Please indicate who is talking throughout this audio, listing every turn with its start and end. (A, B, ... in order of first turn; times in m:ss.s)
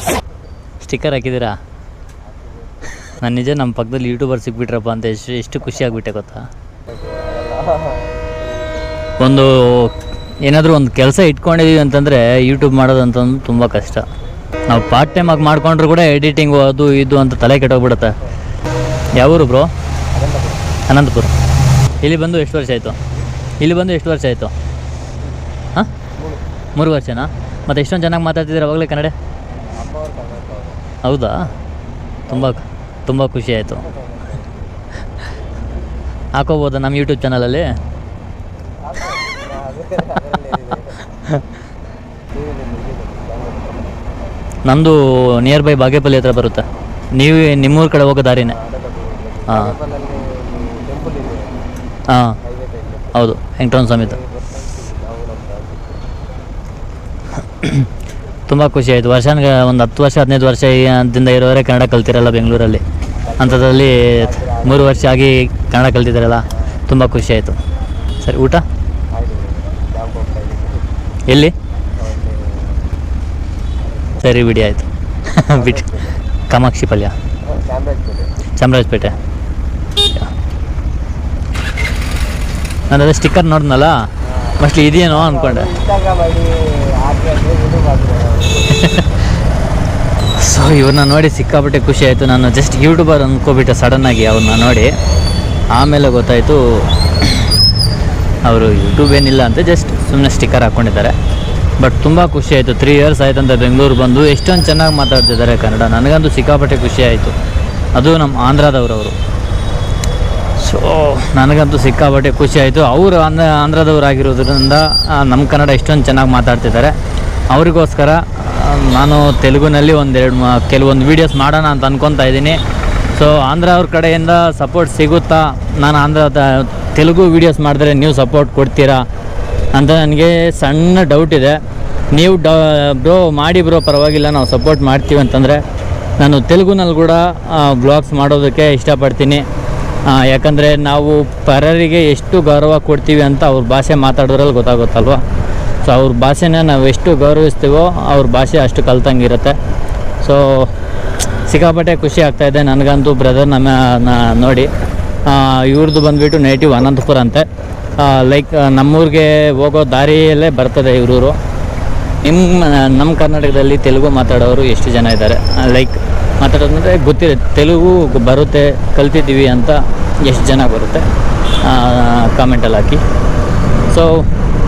0:00.8-0:01.5 A
0:02.4-0:03.0 B
0:03.2-0:06.4 A
0:06.9-0:08.7 B
0:09.2-0:09.9 A
0:10.4-0:14.0 A
0:14.7-0:18.1 A
0:14.9-0:15.5 B
0:19.2-0:19.7 A
0:20.1-0:20.8 B
0:20.9-0:21.3 A
0:22.0-0:23.0 A
0:23.6-0:24.5 A
0:26.2-0:26.4 B
0:26.8-0:29.1 A
0:29.7-0:30.8 B
0:31.0-0:31.5 A
0:32.3-0:32.6 B
0:32.3-0:33.8 A
0:33.7-0:34.7 B
0:36.4-0:37.6 A
0:38.8-0:41.1 B
0:42.3-0:44.3 B
0:44.6-0:48.6 A
0:48.4-0:51.6 B
0:49.5-0:49.7 A
0:52.1-0:52.4 A
0:52.4-0:53.3 B
0:53.1-0:54.2 A
0:53.8-0:56.0 B
0:58.5-1:02.8 A
1:03.2-1:05.1 B
1:03.4-1:07.6 A
1:06.5-1:06.8 B
1:08.2-1:08.6 A
1:09.1-1:10.9 B
1:11.3-1:11.5 A
1:12.0-1:12.8 B
1:14.2-1:15.8 A
1:15.5-1:16.2 B
1:16.5-1:17.1 A
1:17.4-1:18.3 B
1:18.6-1:19.2 A
1:22.9-1:24.0 A
1:24.2-1:29.2 B
1:24.6-1:25.7 A
1:30.4-1:34.9 A
1:35.7-1:36.6 A
1:37.2-1:37.5 A
1:38.4-1:41.1 A
1:41.8-1:47.3 A
1:47.9-1:49.1 A
1:50.6-1:56.9 A
1:57.5-2:02.6 A
2:03.1-2:09.0 A
2:09.7-2:11.6 A
2:12.1-2:15.6 A
2:16.2-2:19.4 A
2:20.1-2:25.2 A
2:25.8-2:29.6 A
2:30.2-2:30.6 A
2:31.5-2:34.7 A
2:35.3-2:37.4 A
2:38.0-2:41.3 A
2:42.2-2:51.0 A
2:51.6-2:53.0 A